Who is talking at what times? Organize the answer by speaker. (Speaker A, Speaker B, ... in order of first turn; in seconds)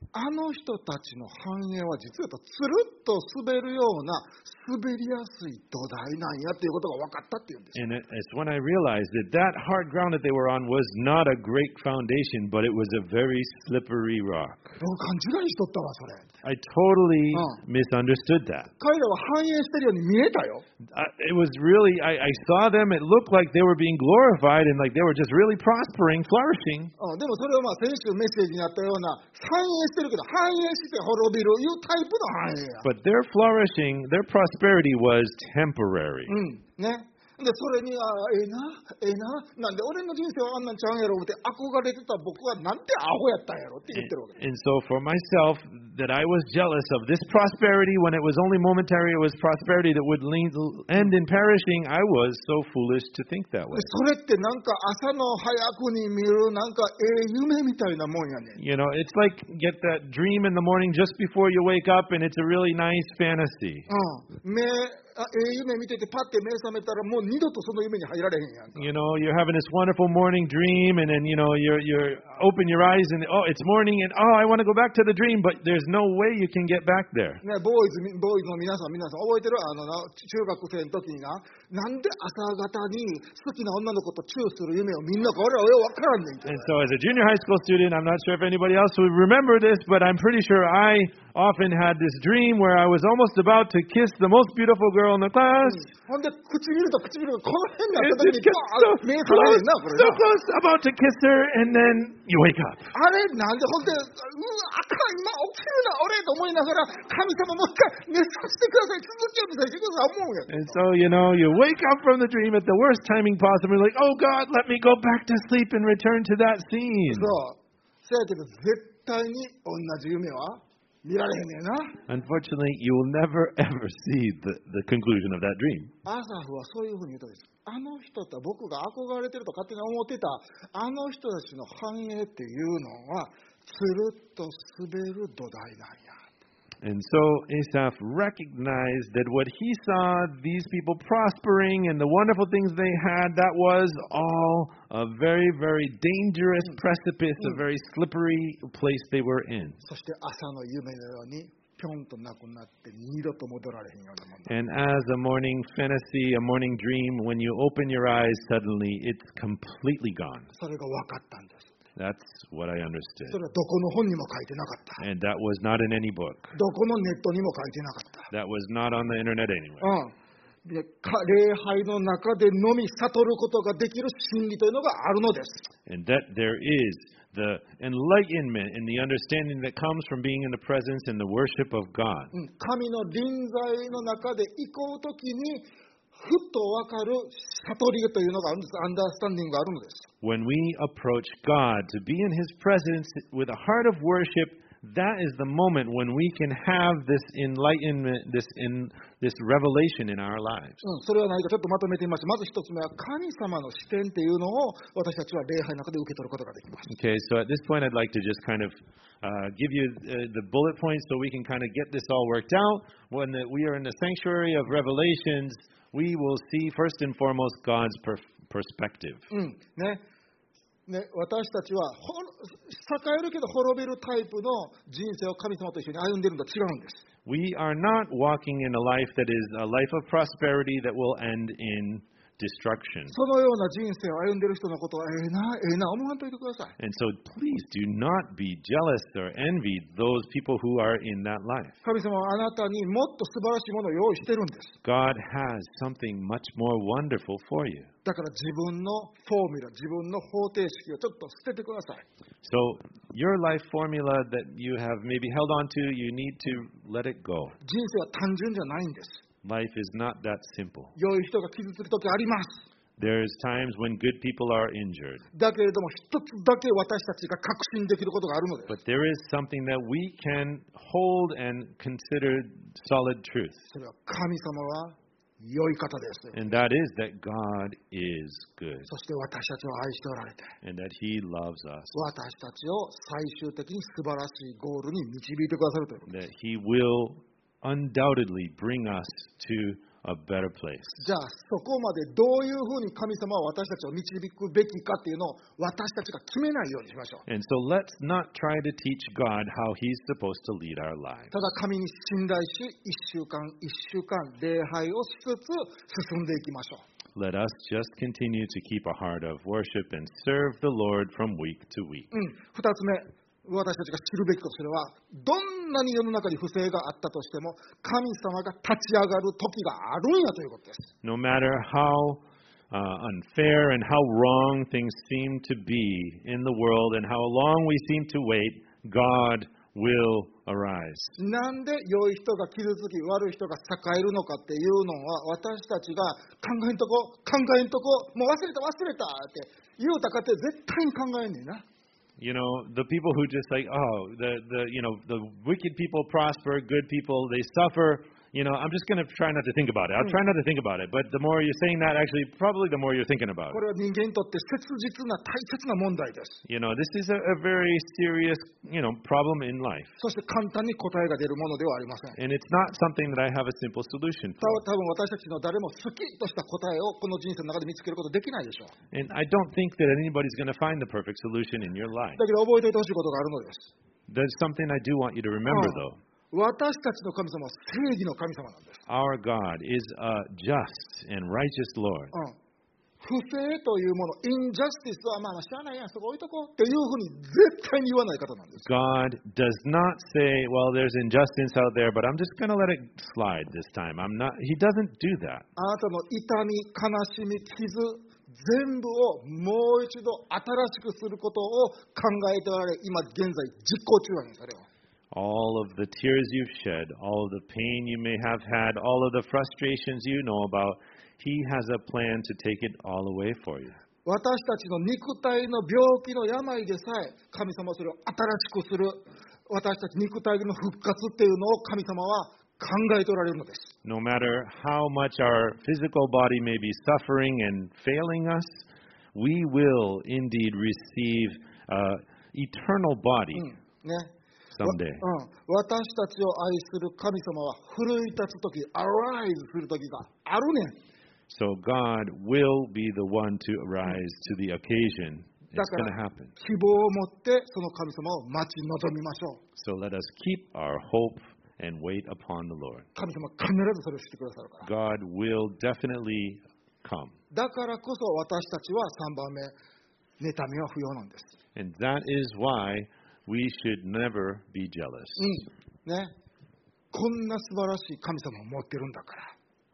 Speaker A: 0.1-7.8, 14.8-16.3, 17.3-17.6, 18.8-20.6, 27.0-32.8, 36.3-44.4, 53.7-58.6, 63.9-68.9, 77.4-86.7, 95.6-100.2, 102.9-110.8, 117.1-122.0, 126.0-136.2, 149.8-154.5, 160.5-161.7, 163.3-165.0, 166.5-168.3, 169.8-170.1, 170.6-175.6, 182.3-190.1, 200.8-206.9, 219.3-220.0, 220.9-227.0, 233.1-236.7, 241.8-244.8, 248.0-252.0, 257.6-259.2, 260.9-262.6, 265.3-268.7, 273.7-276.4, 278.9-280.6, 281.9-286.1, 291.0-297.2, 301.3-306.8, 312.1-320.9, 331.2-341.6, 353.5-356.4, 360.0-362.2, 364.4-368.7, 372.2-373.7, 375.5-378.8, 383.0-388.6, 395.6-404.6, 414.0-423.7, 433.3-434.1, 434.6-440.8, 445.5-449.4, 452.9-454.7, 457.3-459.5, 460.2-461.3, 465.2-466.1, 466.9-469.3
Speaker B: 7.7-14.8, 16.4-18.7, 20.9-26.9, 32.8-36.3, 43.9-53.9, 58.6-63.9, 68.8-77.4, 86.4-95.9, 97.9-102.9, 110.5-117.3, 122.1-125.9, 136.8-149.8, 154.5-160.5, 161.9-163.4, 165.0-166.5, 168.3-169.9, 175.8-182.3, 190.2-200.8, 206.9-219.2, 227.2-233.2, 236.8-241.8, 244.8-247.9, 252.4-257.6, 259.4-260.9, 263.0-265.2, 268.7-273.7, 276.3-278.9, 280.6-281.9, 286.1-291.0, 297.3-301.3, 307.1-312.1, 321.0-331.1, 342.2-353.6, 356.4-359.9, 362.2-364.6, 368.9-372.2, 374.1-376.0, 378.9-382.1, 388.6-395.4, 405.1-413.8, 423.8-428.6, 429.1-433.5, 434.5-435.0, 441.3-446.3, 449.6-452.9, 454.6-457.1, 461.6-465.3